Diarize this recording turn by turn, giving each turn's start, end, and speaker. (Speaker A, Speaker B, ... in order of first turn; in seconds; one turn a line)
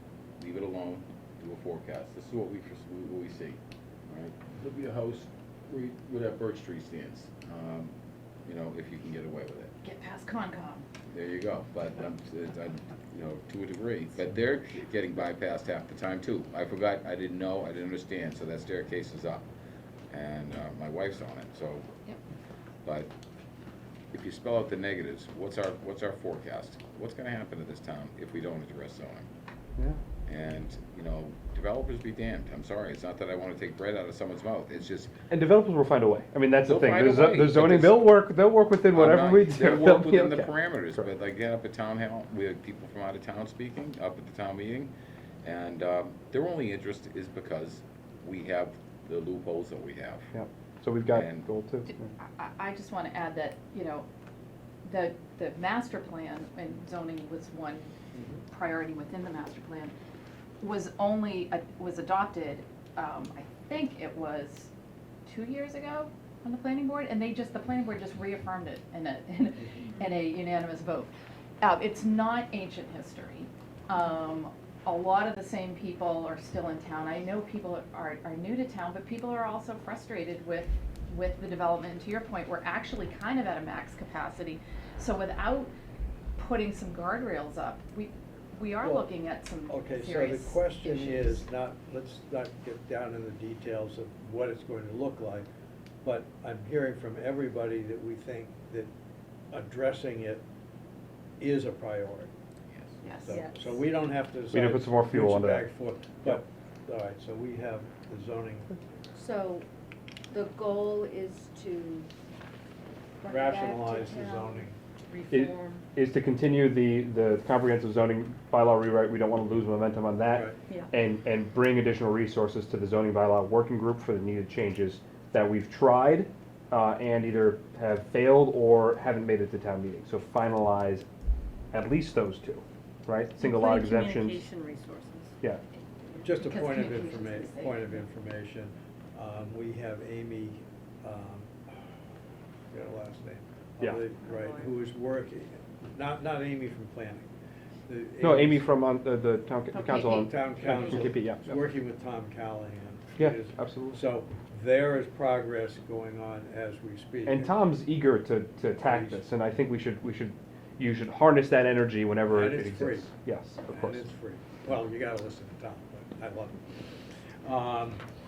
Speaker A: 0.4-7.9
Speaker A: 8.4-9.7
Speaker B: 9.8-10.9
Speaker A: 11.1-19.5
Speaker A: 20.1-21.9
Speaker A: 22.8-23.1
Speaker A: 24.1-29.3
Speaker A: 30.2-35.1
Speaker C: 35.3-41.1
Speaker A: 36.6-38.1
Speaker A: 38.9-50.3
Speaker C: 50.3-52.1
Speaker A: 51.1-51.5
Speaker B: 52.2-54.0
Speaker B: 54.8-57.9
Speaker B: 58.5-59.9
Speaker B: 60.6-64.7
Speaker B: 65.2-85.7
Speaker B: 86.4-91.4
Speaker D: 88.8-89.1
Speaker D: 89.7-95.5
Speaker D: 96.0-98.9
Speaker D: 99.5-100.4
Speaker D: 101.4-102.3
Speaker A: 102.7-103.0
Speaker B: 103.0-103.5
Speaker D: 103.1-108.7
Speaker C: 104.5-105.7
Speaker E: 109.1-109.7
Speaker E: 110.3-112.1
Speaker E: 113.2-114.3
Speaker D: 113.2-114.8
Speaker F: 114.1-115.8
Speaker C: 115.3-131.1
Speaker C: 131.7-134.4
Speaker F: 133.4-135.3
Speaker B: 136.1-138.0
Speaker D: 136.2-141.9
Speaker D: 142.7-147.3
Speaker F: 144.2-144.8
Speaker D: 147.9-148.7
Speaker C: 148.2-151.5
Speaker B: 149.7-150.3
Speaker D: 149.9-157.5
Speaker C: 153.2-154.0
Speaker C: 157.2-164.0
Speaker D: 158.8-159.2
Speaker D: 162.3-166.8
Speaker D: 167.4-168.0